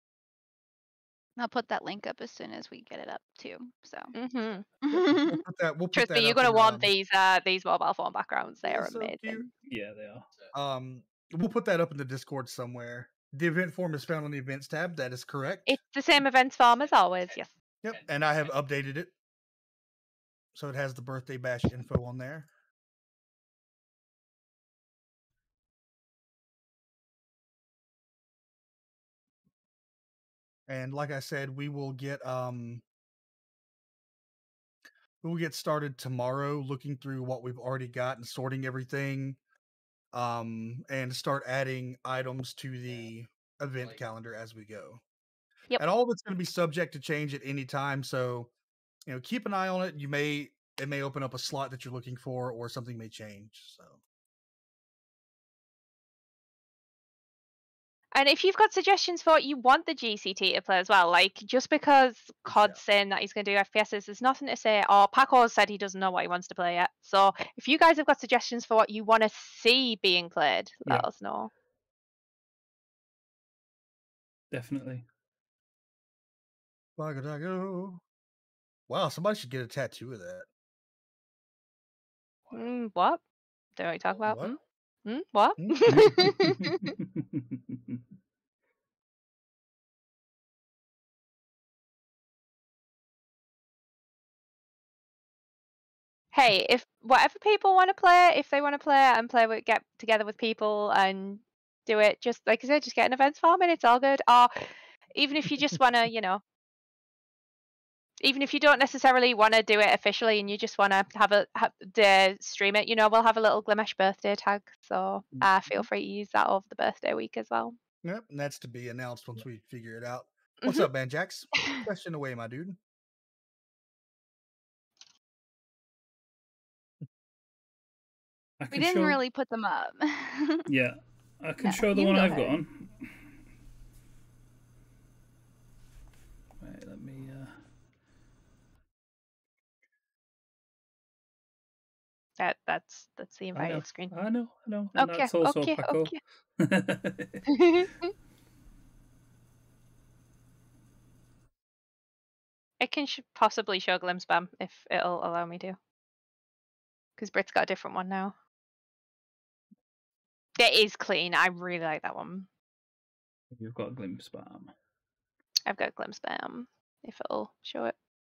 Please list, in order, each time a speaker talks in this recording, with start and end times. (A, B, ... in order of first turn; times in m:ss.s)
0:01.4-0:04.2 A
0:04.2-0:05.4 B
0:04.9-0:06.9 C
0:05.9-0:09.5 B
0:08.6-0:09.5 C
0:09.7-0:10.3 D
0:10.5-0:15.8 C
0:15.7-0:17.5 B
0:17.8-0:19.1 C
0:20.5-0:22.5 C
0:30.7-0:32.8 C
0:35.2-0:39.4 C
0:40.1-0:45.0 C
0:45.8-0:48.5 C
0:49.1-0:54.0 C
0:58.1-1:11.5 B
1:02.5-1:02.8 C
1:14.5-1:15.0 D
1:17.0-1:18.0 C
1:18.9-1:20.5 C
1:22.5-1:23.2 B
1:23.8-1:26.9 B
1:24.2-1:24.6 C
1:25.6-1:26.0 C
1:25.8-1:28.0 D
1:36.3-1:46.4 B
1:48.2-1:57.8 B
1:55.4-1:55.9 C
1:58.0-2:02.8 C
2:08.6-2:09.2 D
2:08.7-2:10.7 A
2:10.7-2:13.3 D
2:11.6-2:12.6 A
2:16.6-2:17.6 D
2:22.4-2:24.1 B
2:23.5-2:27.5 D
2:25.0-2:26.2 B
2:27.5-2:28.1 B
2:32.8-2:35.8 B
2:37.2-2:38.3 B
2:40.6-2:42.5 B
2:43.5-2:44.7 D
2:45.7-2:48.0 B